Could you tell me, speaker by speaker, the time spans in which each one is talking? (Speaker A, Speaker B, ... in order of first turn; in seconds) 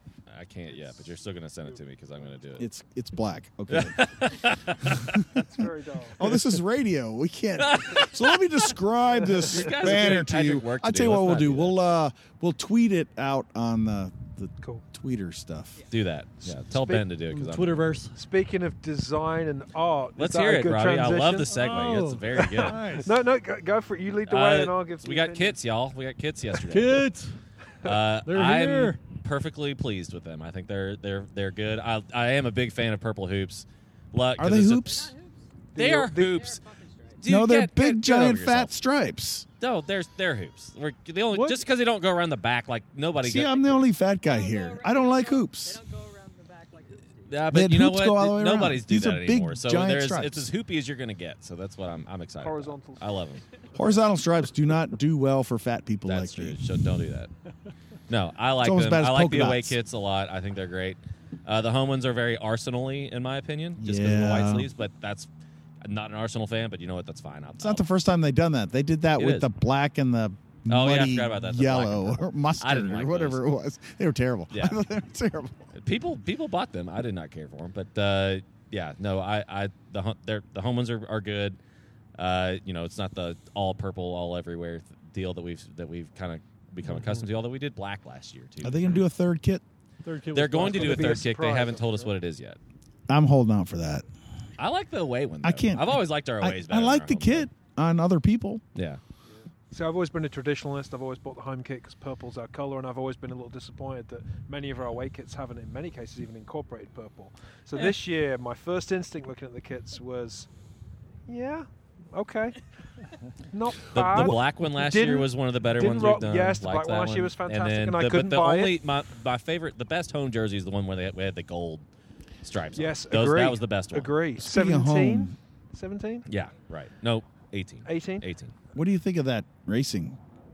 Speaker A: 0.3-2.6, 3.7-5.4, 6.2-6.5, 7.5-8.7, 9.3-11.8, 15.9-18.0, 20.2-23.0, 24.2-27.1, 27.8-35.1, 35.8-36.6, 37.2-38.7, 39.6-43.8, 47.3-53.4, 56.1-57.3, 58.1-65.3, 65.8-67.8, 69.2-69.5, 70.7-73.4, 74.5-74.8, 75.8-81.6, 82.2-89.0, 90.3-92.6, 94.6-97.5, 98.7-99.0, 113.8-121.8, 122.4-124.1, 126.3-128.5
Speaker B: 2.6-4.1, 4.8-5.4, 6.2-15.8, 34.4-35.1, 37.2-39.5, 43.2-45.8, 47.5-50.5, 53.7-56.7, 58.6-59.8, 63.8-64.7, 67.6-75.7, 88.6-89.6, 93.1-94.0, 95.4-98.6, 124.4-125.3, 128.7-130.2
Speaker C: 5.3-6.2, 18.1-21.5, 22.3-25.6, 35.7-36.4, 52.4-53.2, 86.9-87.2, 90.5-92.1, 99.7-110.5, 111.3-112.6, 113.4-118.8, 122.7-126.2, 127.8-128.2
Speaker D: 17.3-18.1, 21.5-23.1, 26.6-27.4, 28.2-29.0, 41.3-41.6, 90.0-91.2
Speaker E: 34.9-35.5, 36.2-37.2, 44.2-47.6